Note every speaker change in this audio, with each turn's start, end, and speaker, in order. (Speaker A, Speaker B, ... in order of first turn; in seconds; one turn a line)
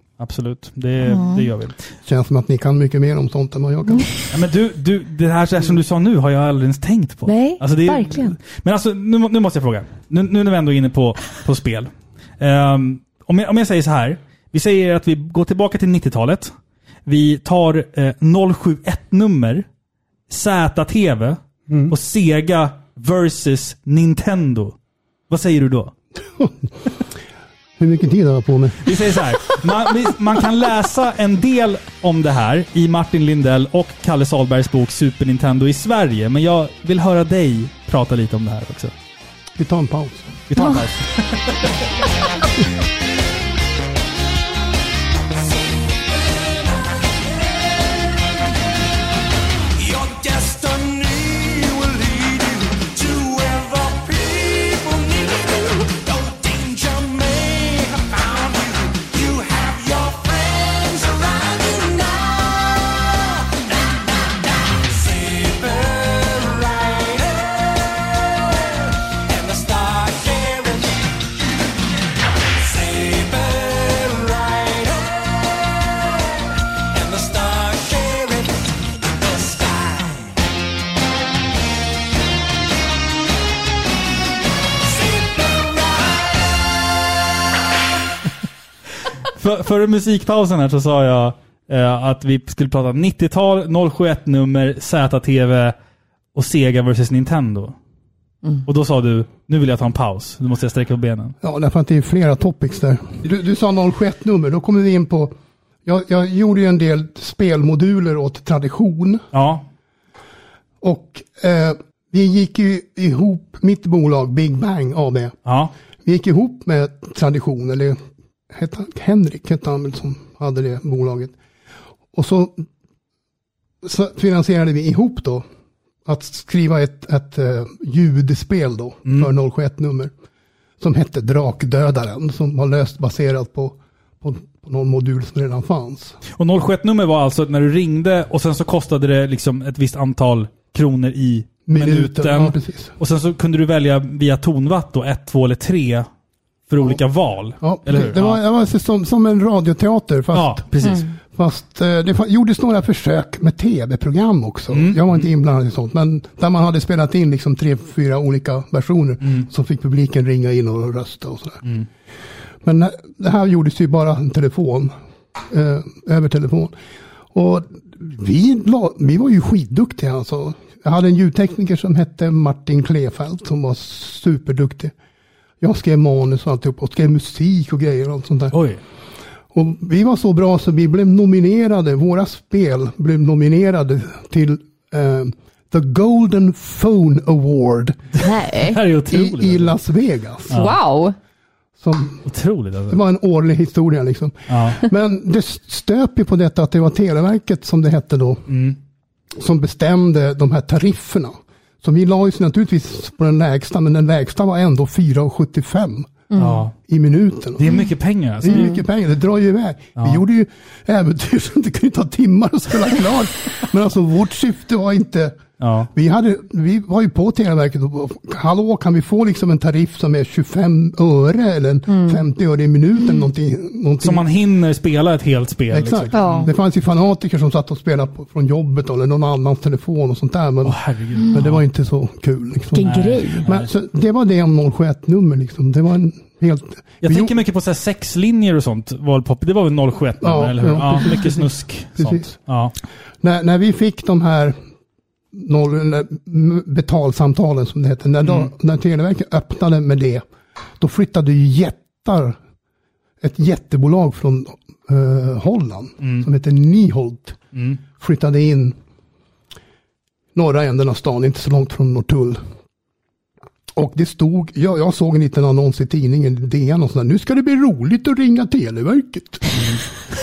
Speaker A: 0.2-1.8
Speaker B: 1.0-1.5
Speaker C: 2.1-4.1
Speaker A: 4.3-16.5
Speaker B: 7.3-8.4
Speaker A: 17.1-19.7
Speaker A: 20.3-24.8
Speaker C: 21.7-21.9
Speaker A: 25.3-25.9
Speaker C: 27.8-28.9
Speaker A: 28.8-38.9
Speaker C: 39.6-40.4
Speaker A: 40.5-41.6
Speaker D: 49.8-63.3
Speaker D: 64.3-71.3
Speaker D: 72.6-76.2
Speaker D: 76.9-80.3
Speaker D: 84.8-86.4
Speaker A: 89.4-95.8
Speaker A: 96.3-97.8
Speaker A: 98.7-101.3
Speaker C: 101.4-105.3
Speaker C: 105.8-109.2
Speaker A: 109.3-109.7
Speaker C: 110.8-115.4
Speaker A: 115.5-115.7
Speaker C: 116.0-118.0
Speaker C: 118.5-121.3
Speaker C: 122.1-122.7
Speaker C: 123.8-125.5
Speaker C: 126.0-130.1
Speaker C: 130.8-136.2
Speaker A: 136.4-146.1
Speaker C: 141.7-142.9
Speaker A: 146.7-148.4
Speaker C: 147.6-161.6
Speaker A: 150.3-151.1
Speaker A: 154.7-155.3
Speaker C: 162.6-164.9
Speaker C: 165.5-166.7
Speaker C: 167.3-174.9
Speaker C: 175.6-178.6
Speaker A: 178.5-178.8
Speaker C: 179.5-188.1
Speaker A: 188.2-189.8
Speaker B: 188.2-188.8
Speaker C: 189.1-190.6
Speaker A: 190.5-190.8
Speaker B: 190.5-191.2
Speaker C: 191.8-192.2
Speaker A: 192.2-193.0
Speaker C: 192.9-198.5
Speaker A: 194.5-194.8
Speaker A: 198.5-198.8
Speaker C: 199.4-206.2
Speaker B: 206.3-206.6
Speaker A: 206.4-206.7
Speaker C: 206.8-207.7
Speaker A: 207.6-208.8
Speaker C: 208.4-215.4
Speaker B: 208.5-208.8
Speaker A: 215.6-215.9
Speaker C: 215.9-224.3
Speaker B: 221.9-222.2
Speaker A: 224.0-226.5
Speaker C: 225.7-237.4
Speaker B: 226.1-226.5
Speaker A: 230.7-231.6
Speaker B: 232.7-233.5
Speaker A: 232.8-233.7
Speaker A: 237.0-242.7
Speaker C: 240.2-242.4
Speaker C: 243.2-244.6
Speaker C: 245.3-250.2
Speaker A: 248.2-248.5
Speaker C: 250.8-252.4
Speaker C: 253.2-257.4
Speaker A: 256.0-256.3
Speaker A: 257.5-257.8
Speaker C: 258.0-258.8
Speaker C: 260.4-262.4
Speaker C: 263.7-269.8